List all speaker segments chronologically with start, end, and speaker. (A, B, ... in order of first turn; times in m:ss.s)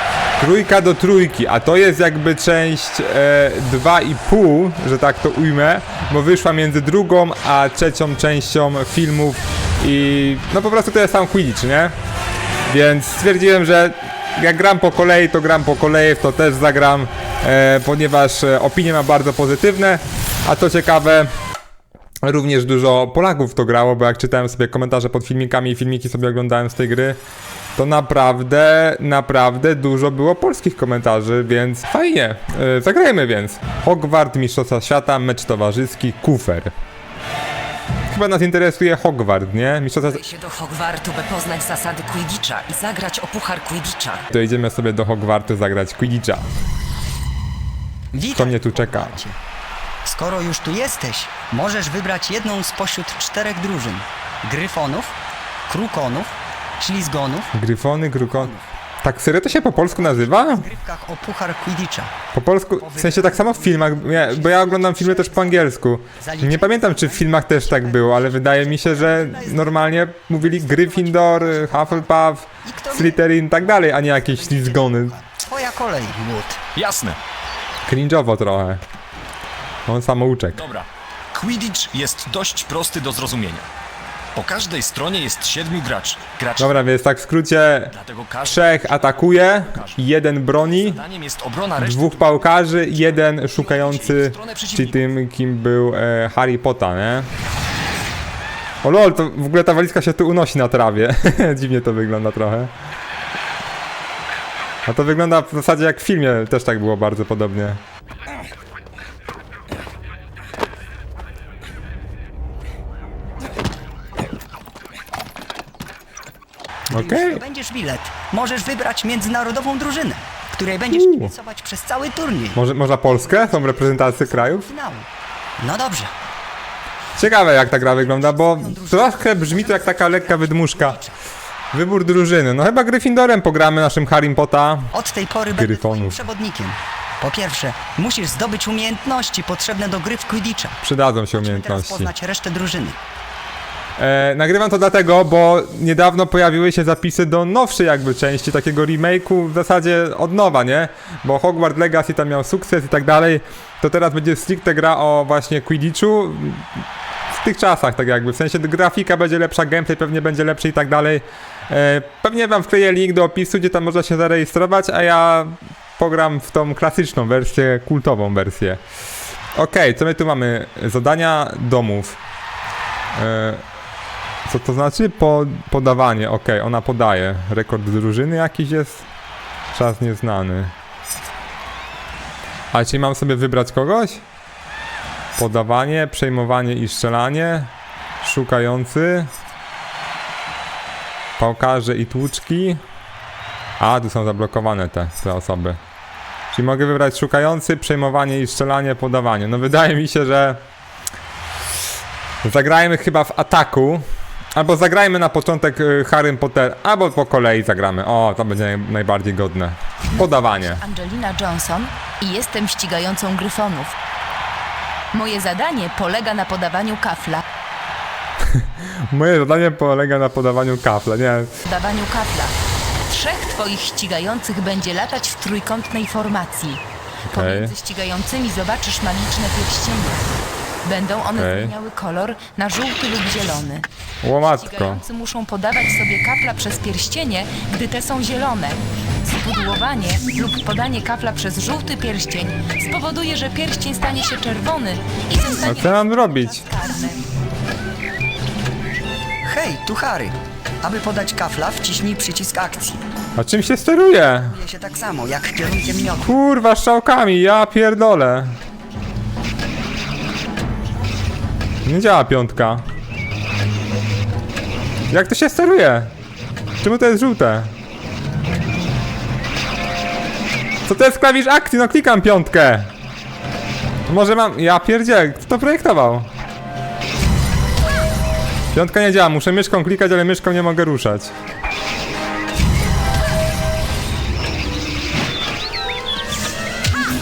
0:00.4-0:11.9 A
0:12.7-0:21.3 A
0:22.2-0:27.2 A
0:27.8-0:36.7 A
0:38.1-0:40.2 A
0:40.1-0:44.2 B
0:44.3-0:46.5 A
0:48.1-0:49.4 C
0:48.3-0:49.2 A
0:50.0-0:55.1 C
0:55.7-0:57.5 C
0:57.5-1:00.7 A
0:58.3-0:58.6 C
0:59.6-1:02.1 C
1:02.3-1:15.2 A
1:02.8-1:16.6 C
1:16.7-1:17.2 D
1:17.9-1:18.8 A
1:19.9-1:20.6 A
1:20.6-1:23.6 D
1:24.3-1:26.7 D
1:26.6-1:27.9 A
1:27.9-1:30.0 D
1:28.4-1:31.0 A
1:30.8-1:32.4 D
1:31.8-1:37.3 A
1:33.3-1:35.0 D
1:38.8-1:42.7 A
1:44.8-1:47.8 A
1:56.9-1:57.4 A
1:56.9-2:05.1 C
2:00.9-2:01.3 A
2:02.6-2:04.6 A
2:05.6-2:06.1 C
2:07.2-2:11.0 A
2:07.7-2:11.1 C
2:11.7-2:14.9 A
2:14.9-2:20.8 C
2:15.5-2:16.2 A
2:20.8-2:22.1 A
2:21.3-2:23.0 C
2:24.0-2:36.6 A
2:37.3-2:48.8 A
2:49.5-2:52.2 A
2:53.1-2:53.6 A
2:54.5-2:59.0 A
2:59.7-3:00.7 A
3:02.7-3:04.2 A
3:05.4-3:07.7 A
3:08.2-3:09.3 A
3:11.4-3:12.8 A
3:13.8-3:15.8 A
3:16.5-3:20.6 A
3:22.4-3:30.8 A
3:30.1-3:33.9 E
3:35.1-3:37.4 E
3:38.5-3:41.5 A
3:41.7-3:42.6 E
3:43.1-3:46.8 E
3:47.3-3:47.7 A
3:47.3-3:50.2 E
3:50.8-4:07.2 E
3:51.3-3:51.7 A
3:54.2-3:55.0 A
4:05.6-4:06.6 A
4:09.4-4:13.0 C
4:13.4-4:14.6 A
4:14.4-4:16.3 C
4:16.2-4:18.6 A
4:21.8-4:22.8 A
4:25.1-4:26.1 A
4:26.8-4:27.7 A
4:30.8-4:32.9 A
4:34.1-4:36.3 A
4:38.7-4:41.3 A